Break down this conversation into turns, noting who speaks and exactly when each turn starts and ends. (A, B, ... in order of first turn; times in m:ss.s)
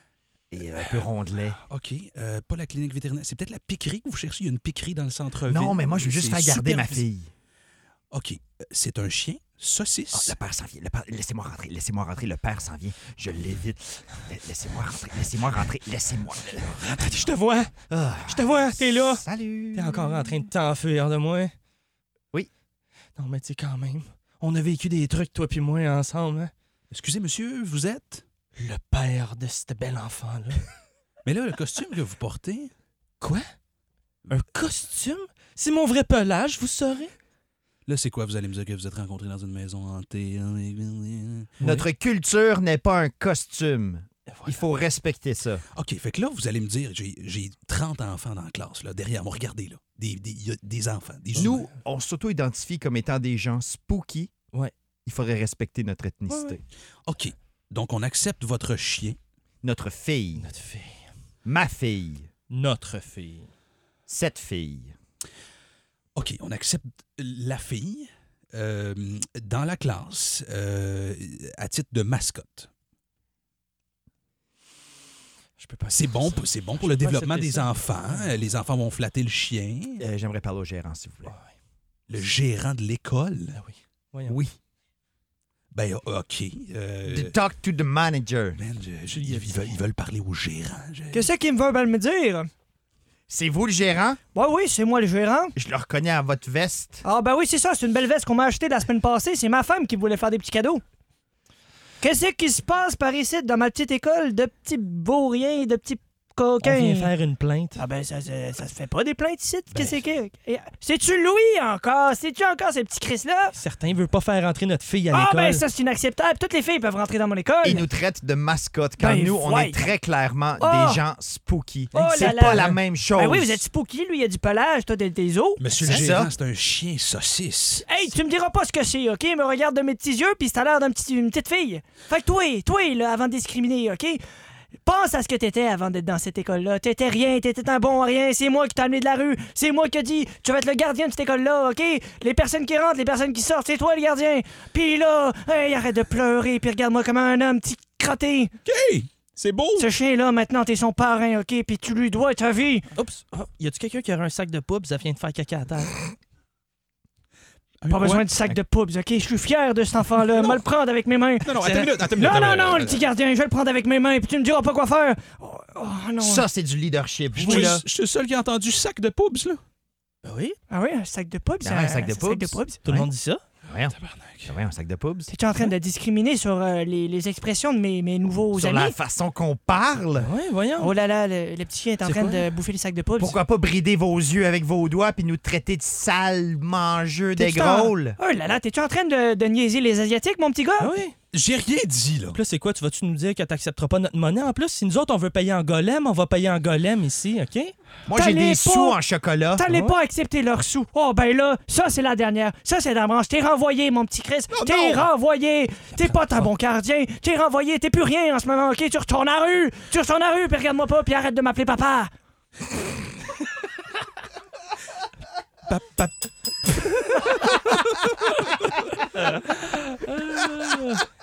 0:00.5-0:01.6 A
0:00.8-0:01.1 B
0:01.6-0:07.0 B
0:05.5-0:07.3 A
0:08.1-0:10.4 B
0:10.1-0:17.3 A
0:16.8-0:17.7 C
0:17.9-0:20.3 A
0:18.3-0:21.5 C
0:23.2-0:26.5 C
0:26.9-0:28.2 B
0:28.6-0:30.7 C
0:31.2-0:32.7 B
0:33.2-0:33.5 C
0:34.3-0:37.1 C
0:37.9-0:41.5 B
0:41.6-0:41.9 C
0:41.6-0:45.6 A
0:44.3-0:44.6 C
0:45.8-0:51.6 B
0:51.4-0:54.3 A
0:55.1-0:56.6 A
0:56.3-0:56.6 C
0:57.0-0:59.2 B
0:59.6-1:00.5 A
1:00.4-1:01.1 C
1:01.4-1:02.3 A
1:02.5-1:03.5 C
1:04.1-1:05.0 A
1:06.2-1:12.7 B
1:15.6-1:18.3 C
1:15.9-1:20.0 B
1:20.0-1:21.4 A
1:21.3-1:21.5 C
1:22.1-1:23.6 B
1:23.6-1:24.4 C
1:24.3-1:24.6 A
1:25.7-1:27.4 B
1:27.1-1:28.6 A
1:28.6-1:31.3 B
1:29.1-1:29.8 C
1:31.1-1:32.5 D
1:33.3-1:34.2 A
1:34.3-1:35.6 D
1:35.6-1:37.0 A
1:37.0-1:40.8 D
1:42.0-1:47.1 D
1:46.6-1:47.8 C
1:47.8-1:53.6 D
1:53.6-1:55.6 C
1:55.1-1:57.8 D
1:57.6-2:03.6 A
1:59.0-1:59.8 D
2:00.6-2:01.0 D
2:01.9-2:02.6 C
2:01.9-2:05.6 D
2:05.6-2:08.1 B
2:05.8-2:06.3 A
2:07.8-2:14.2 D
2:14.8-2:28.5 D
2:28.6-2:29.9 B
2:29.8-2:32.9 D
2:33.0-2:36.1 C
2:37.8-2:38.3 B
2:37.9-2:41.6 D
2:40.4-2:40.6 B
2:41.4-2:43.0 B
2:41.6-2:42.0 C
2:42.2-2:46.5 D
2:46.2-2:47.8 A
2:47.4-2:49.6 B
2:50.2-2:50.6 C
2:50.7-2:52.8 D
2:51.6-2:53.1 A
2:52.9-2:53.4 C
2:53.7-2:53.9 A
2:53.9-2:54.5 B
2:54.5-2:55.3 A
2:55.3-2:59.0 D
2:58.6-3:00.3 A
3:00.2-3:00.9 C
3:00.8-3:03.4 D
3:02.0-3:02.5 C
3:03.2-3:08.2 A
3:07.4-3:10.9 D
3:10.8-3:11.2 C
3:11.3-3:12.4 B
3:12.3-3:17.8 C
3:18.1-3:19.6 A
3:18.1-3:19.0 D
3:19.6-3:32.1 D
3:19.6-3:19.9 C
3:24.5-3:25.0 B
3:35.7-3:36.1 B
3:40.1-3:41.0 C